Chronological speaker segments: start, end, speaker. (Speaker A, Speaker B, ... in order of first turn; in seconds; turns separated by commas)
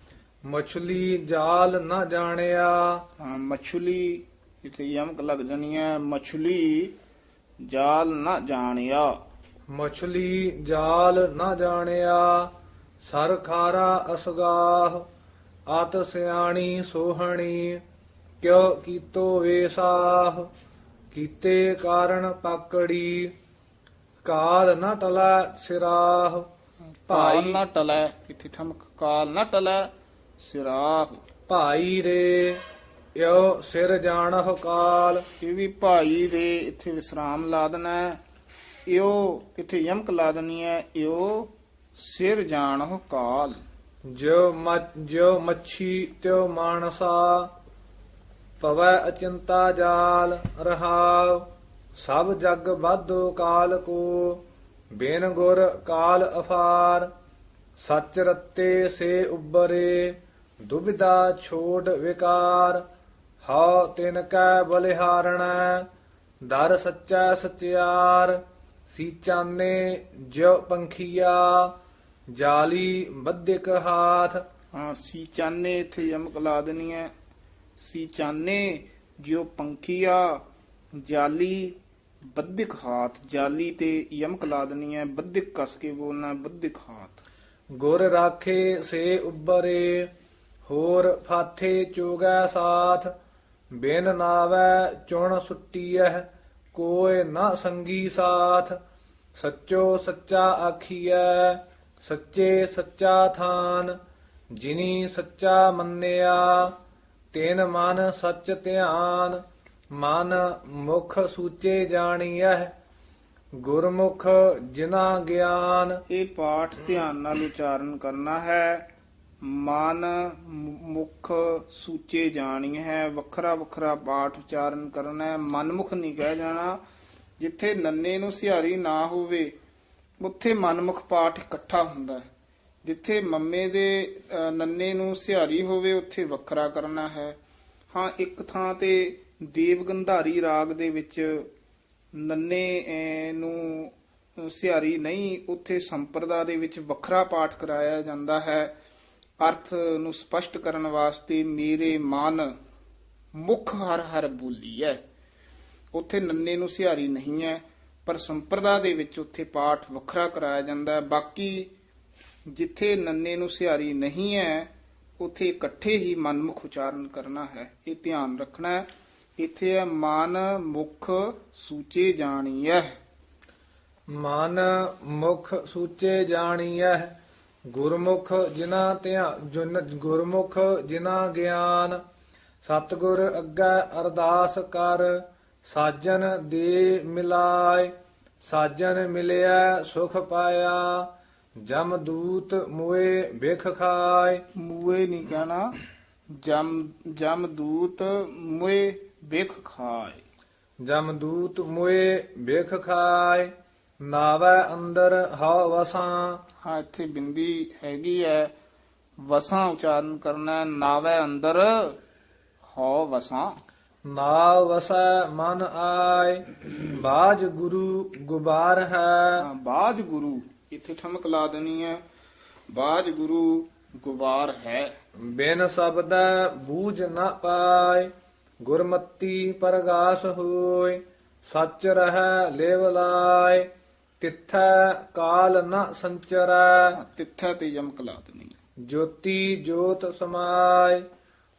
Speaker A: 0.5-3.0, Speaker B: 3.2-6.9, Speaker B: 7.6-9.1, Speaker A: 9.7-12.5, Speaker A: 13.0-15.1, Speaker A: 15.7-17.8, Speaker A: 18.4-20.5, Speaker A: 21.1-23.3, Speaker A: 24.2-26.5, Speaker B: 27.0-29.9, Speaker A: 27.1-27.6, Speaker B: 30.4-31.2, Speaker A: 31.5-32.6, Speaker A: 33.1-35.2, Speaker B: 35.4-38.2, Speaker B: 38.9-43.6, Speaker A: 44.0-47.5, Speaker A: 48.6-51.5, Speaker A: 52.0-54.4, Speaker A: 54.9-57.1, Speaker A: 57.8-62.8, Speaker A: 63.4-65.9, Speaker A: 66.4-68.4, Speaker A: 68.9-71.7, Speaker A: 72.3-74.4, Speaker B: 74.7-77.1, Speaker B: 77.8-80.4, Speaker B: 81.0-81.8, Speaker B: 82.3-87.2, Speaker A: 87.7-90.1, Speaker A: 90.7-93.1, Speaker A: 93.7-98.8, Speaker A: 99.3-104.0, Speaker A: 104.5-106.7, Speaker A: 107.3-109.4, Speaker A: 109.9-112.7, Speaker A: 113.6-116.0, Speaker B: 116.1-118.8, Speaker B: 119.4-126.8, Speaker B: 127.4-129.6, Speaker B: 130.2-132.2, Speaker B: 132.8-137.4, Speaker B: 137.9-141.5, Speaker B: 142.1-148.7, Speaker B: 149.4-152.5, Speaker B: 153.3-155.0, Speaker B: 155.9-161.7, Speaker B: 162.5-173.0, Speaker A: 174.1-177.1, Speaker A: 177.7-182.0, Speaker A: 182.6-194.4, Speaker B: 194.6-195.7, Speaker B: 196.4-200.2, Speaker A: 200.8-206.4, Speaker B: 206.6-208.5, Speaker B: 209.2-212.0, Speaker B: 212.6-213.6, Speaker A: 214.1-219.4, Speaker B: 219.4-222.0, Speaker B: 222.7-224.9, Speaker A: 225.2-233.7, Speaker A: 234.2-237.0, Speaker B: 236.9-238.6, Speaker A: 238.8-241.1